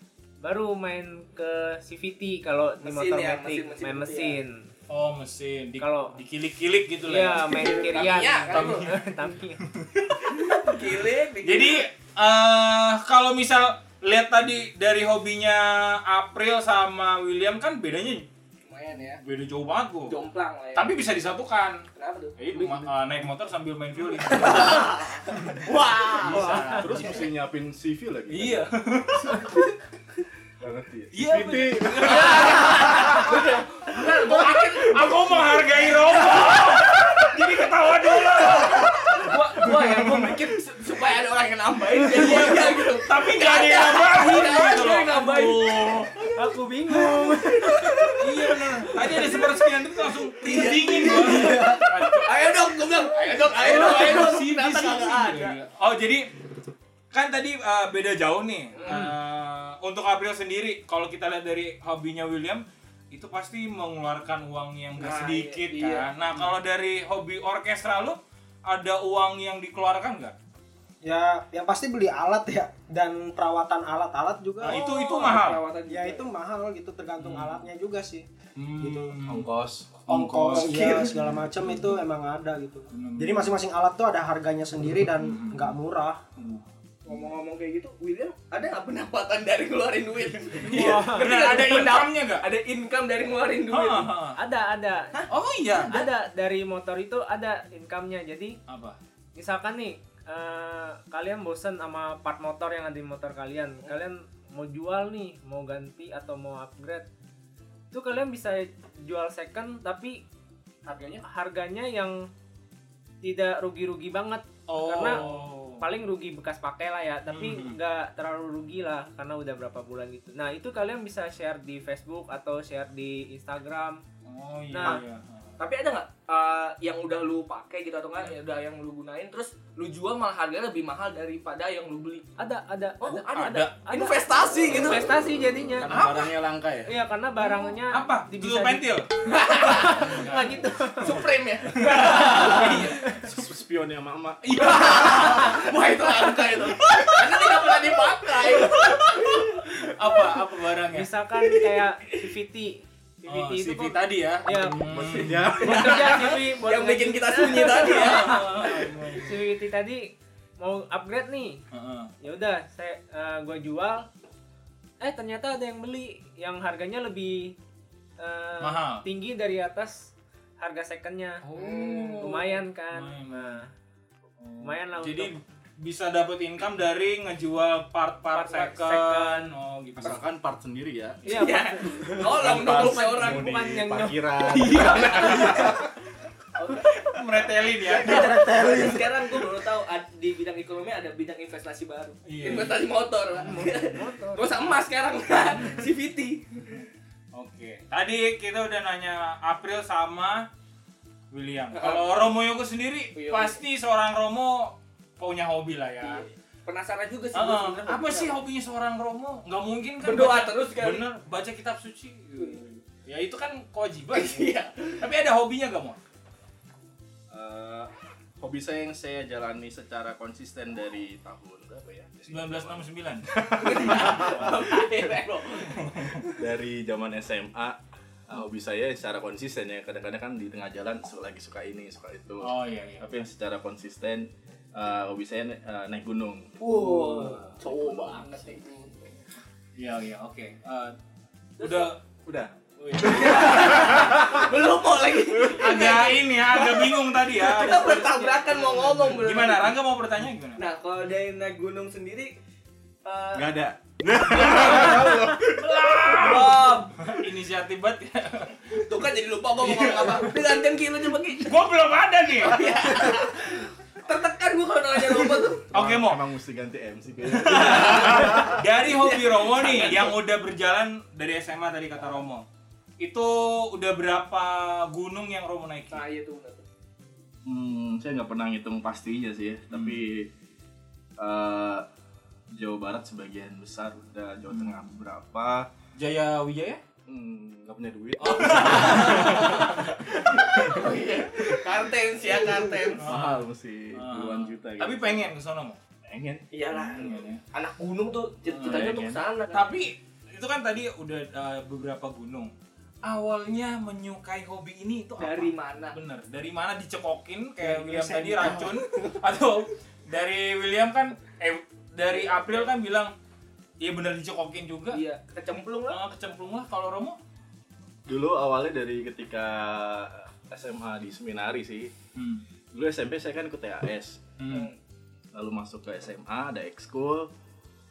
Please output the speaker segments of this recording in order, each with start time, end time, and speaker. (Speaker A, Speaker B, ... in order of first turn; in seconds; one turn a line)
Speaker A: 0.4-4.7
Speaker B: 2.8-4.4
Speaker C: 4.9-9.0
Speaker A: 5.8-6.2
Speaker A: 7.0-9.6
Speaker B: 7.4-8.9
Speaker C: 9.6-10.8
Speaker B: 10.2-11.9
Speaker C: 11.4-18.3
Speaker B: 18.6-19.2
Speaker C: 19.1-20.2
Speaker B: 20.1-20.9
Speaker C: 20.7-21.8
Speaker B: 21.9-22.8
Speaker C: 22.4-25.6
Speaker B: 24.2-26.6
Speaker C: 26.2-27.2
Speaker A: 26.4-26.8
Speaker D: 26.4-29.7
Speaker C: 28.3-29.4
Speaker D: 30.6-34.3
Speaker C: 31.1-33.4
Speaker B: 32.0-35.6
Speaker C: 34.0-39.0
Speaker B: 38.3-46.4
Speaker C: 39.6-40.3
Speaker C: 42.1-46.1
Speaker A: 46.3-48.2
Speaker B: 47.0-55.6
Speaker C: 48.2-56.3
Speaker E: 51.1-52.0
Speaker C: 57.1-70.3
Speaker B: 58.7-59.1
Speaker B: 65.0-66.1
Speaker E: 71.0-74.8
Speaker C: 74.6-75.6
Speaker B: 74.6-76.2
Speaker E: 75.9-78.2
Speaker C: 77.2-77.6
Speaker C: 78.6-79.5
Speaker E: 78.8-79.2
Speaker D: 79.3-80.1
Speaker C: 80.1-81.9
Speaker E: 80.1-86.2
Speaker B: 80.7-81.0
Speaker C: 82.9-83.5
Speaker C: 85.2-85.7
Speaker C: 86.4-87.2
Speaker B: 87.0-94.1
Speaker C: 90.5-92.4
Speaker A: 90.7-91.8
Speaker C: 93.7-94.4
Speaker A: 94.4-95.2
Speaker C: 95.3-96.0
Speaker A: 95.9-98.6
Speaker C: 98.7-99.0
Speaker A: 99.3-107.1
Speaker A: 107.9-110.2
Speaker B: 110.8-111.2
Speaker A: 111.1-112.2
Speaker A: 113.2-124.0
Speaker C: 114.7-115.8
Speaker C: 117.3-117.8
Speaker C: 124.2-125.5
Speaker A: 124.7-125.0
Speaker B: 125.6-132.3
Speaker A: 132.4-135.9
Speaker B: 133.0-135.3
Speaker C: 133.3-133.7
Speaker B: 135.8-136.3
Speaker C: 135.8-139.1
Speaker A: 136.8-138.8
Speaker B: 139.3-140.1
Speaker A: 139.4-141.2
Speaker C: 139.6-143.5
Speaker B: 141.0-142.9
Speaker D: 142.3-145.6
Speaker C: 144.4-145.6
Speaker B: 144.6-150.2
Speaker C: 149.7-151.1
Speaker A: 150.9-154.9
Speaker B: 151.4-152.2
Speaker C: 153.2-155.6
Speaker D: 154.5-156.1
Speaker B: 155.1-158.9
Speaker A: 155.6-161.6
Speaker C: 157.7-159.3
Speaker C: 161.7-162.1
Speaker A: 162.2-164.1
Speaker A: 165.0-167.6
Speaker A: 168.2-173.7
Speaker C: 168.6-169.0
Speaker C: 171.4-173.6
Speaker B: 171.5-172.4
Speaker C: 174.4-180.2
Speaker A: 174.6-175.3
Speaker A: 178.3-179.5
Speaker D: 180.0-181.4
Speaker B: 181.2-183.5
Speaker A: 181.2-184.3
Speaker D: 182.0-185.8
Speaker C: 184.5-185.7
Speaker B: 184.7-185.7
Speaker B: 186.6-196.8
Speaker C: 186.9-188.4
Speaker E: 187.8-189.2
Speaker C: 192.2-192.8
Speaker A: 193.4-194.7
Speaker C: 197.3-200.5
Speaker C: 201.3-206.2
Speaker B: 201.7-202.1
Speaker B: 203.1-203.6
Speaker B: 206.0-208.3
Speaker C: 207.3-216.0
Speaker B: 210.0-211.0
Speaker B: 214.1-215.0
Speaker D: 217.3-225.2
Speaker C: 222.3-223.3
Speaker B: 223.6-226.2
Speaker D: 226.2-238.4
Speaker C: 232.4-233.1
Speaker B: 236.6-239.1
Speaker C: 237.0-237.4
Speaker C: 239.8-240.9
Speaker C: 241.6-242.0
Speaker B: 241.6-241.9
Speaker D: 242.2-244.6
Speaker C: 242.8-244.1
Speaker B: 243.0-249.7
Speaker C: 245.6-250.6
Speaker B: 250.6-252.3
Speaker B: 253.0-253.6
Speaker D: 253.3-256.4
Speaker C: 254.1-258.8
Speaker B: 254.4-255.1
Speaker B: 256.1-257.1
Speaker B: 258.7-261.6
Speaker C: 259.6-260.3
Speaker C: 261.4-262.7
Speaker B: 262.4-265.7
Speaker C: 265.7-266.2
Speaker D: 265.7-268.7
Speaker C: 267.3-272.4
Speaker B: 268.8-270.1
Speaker C: 273.0-276.0
Speaker B: 275.9-276.6
Speaker D: 277.4-280.3
Speaker C: 279.7-280.0
Speaker D: 281.2-281.9
Speaker D: 282.6-285.7
Speaker C: 284.5-284.8
Speaker C: 286.0-286.8
Speaker D: 287.1-291.6
Speaker C: 288.2-289.9
Speaker B: 288.9-293.1
Speaker D: 292.9-295.3
Speaker C: 293.0-295.8
Speaker D: 296.1-296.5
Speaker B: 296.5-299.8
Speaker C: 296.8-297.4
Speaker C: 298.5-302.5
Speaker D: 298.7-299.2
Speaker C: 303.0-313.1
Speaker B: 305.2-305.9
Speaker B: 307.6-308.6
Speaker E: 307.9-308.9
Speaker B: 312.1-312.7
Speaker C: 313.8-315.0
Speaker B: 314.9-316.0
Speaker C: 315.9-317.2
Speaker D: 318.1-321.9
Speaker C: 322.1-322.4
Speaker D: 322.7-324.2
Speaker C: 324.4-324.7
Speaker B: 324.5-324.8
Speaker D: 325.3-327.3